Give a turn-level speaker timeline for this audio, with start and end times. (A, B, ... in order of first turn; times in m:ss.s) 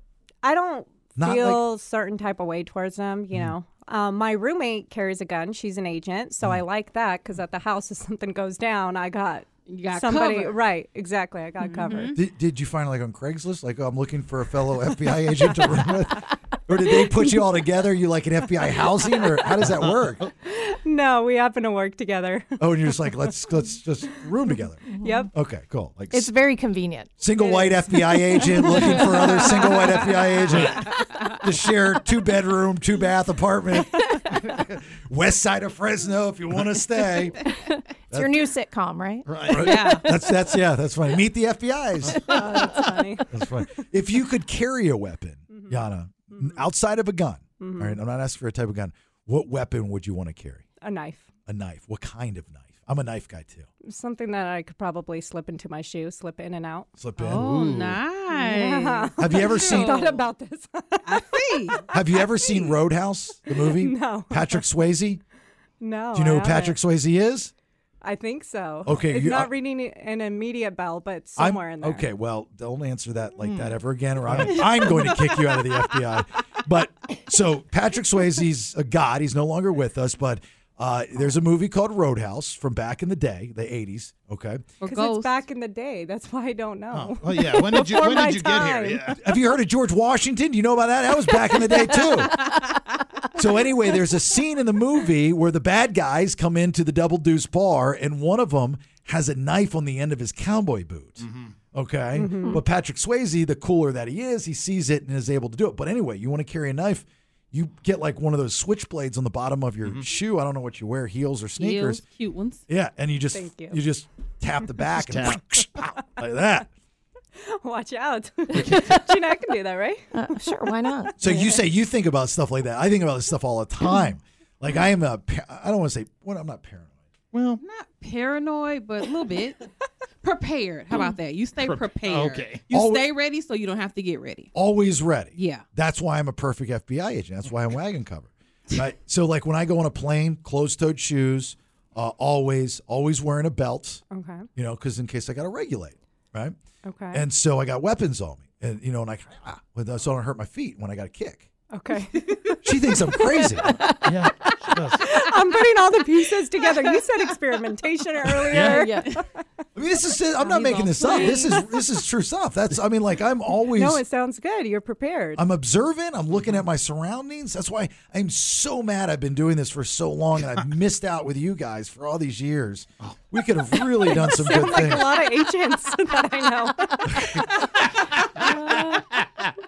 0:00.4-0:12.2 A
0:01.2-0:01.6 B
0:09.7-0:10.6 C
0:11.6-0:12.2 C
0:12.1-0:20.2 B
0:20.4-0:22.9 A
0:22.6-0:26.3 B
0:24.9-0:25.3 D
0:25.0-0:25.3 A
0:26.1-0:27.2 D
0:27.2-0:37.4 B
0:27.9-0:29.8 D
0:30.5-0:30.9 E
0:37.6-0:39.9 D
0:38.1-0:38.4 B
0:39.3-0:39.8 E
0:39.5-0:42.4 B
0:39.5-0:40.1 C
0:42.1-0:42.9 E
0:42.3-0:43.3 A
0:43.3-0:50.6 B
0:47.6-0:48.0 A
0:50.8-0:51.3 A
0:51.5-0:53.7 B
0:53.8-0:56.9 A
0:57.0-0:57.5 B
0:57.2-1:00.2 C
0:57.3-0:58.0 E
0:58.3-1:02.5 A
0:59.2-1:00.1 B
1:01.1-1:01.9 C
1:01.9-1:05.2 B
1:03.5-1:04.6 A
1:05.8-1:06.8 A
1:06.2-1:07.5 B
1:08.0-1:12.0 A
1:08.8-1:09.5 B
1:11.4-1:24.6 B
1:13.4-1:13.8 E
1:14.3-1:14.9 E
1:24.8-1:25.4 C
1:24.8-1:29.1 A
1:26.9-1:29.2 E
1:29.1-1:32.5 B
1:33.3-1:52.0 B
1:41.2-1:41.5 E
1:42.2-1:42.6 A
1:51.6-1:52.6 C
1:52.7-1:56.7 B
1:53.3-1:53.8 A
1:55.0-1:55.4 E
1:57.4-2:00.1 A
1:58.6-1:59.0 D
2:00.1-2:01.4 D
2:01.2-2:06.9 B
2:07.3-2:07.6 E
2:07.6-2:09.7 C
2:10.2-2:14.5 C
2:11.6-2:12.6 E
2:12.7-2:13.1 B
2:14.5-2:24.0 B
2:15.4-2:15.6 C
2:24.1-2:24.5 A
2:24.6-2:26.6 B
2:26.8-2:27.2 A
2:27.1-2:31.5 B
2:31.7-2:32.6 A
2:32.6-2:33.8 B
2:33.7-2:34.1 A
2:34.0-2:35.0 E
2:35.0-2:39.2 A
2:38.5-2:38.9 E
2:38.5-2:39.2 D
2:39.8-2:44.0 B
2:40.4-2:41.6 C
2:43.7-2:45.4 A
2:45.4-2:55.2 B
2:54.0-2:57.4 A
2:57.1-2:57.4 B
2:57.9-2:59.0 E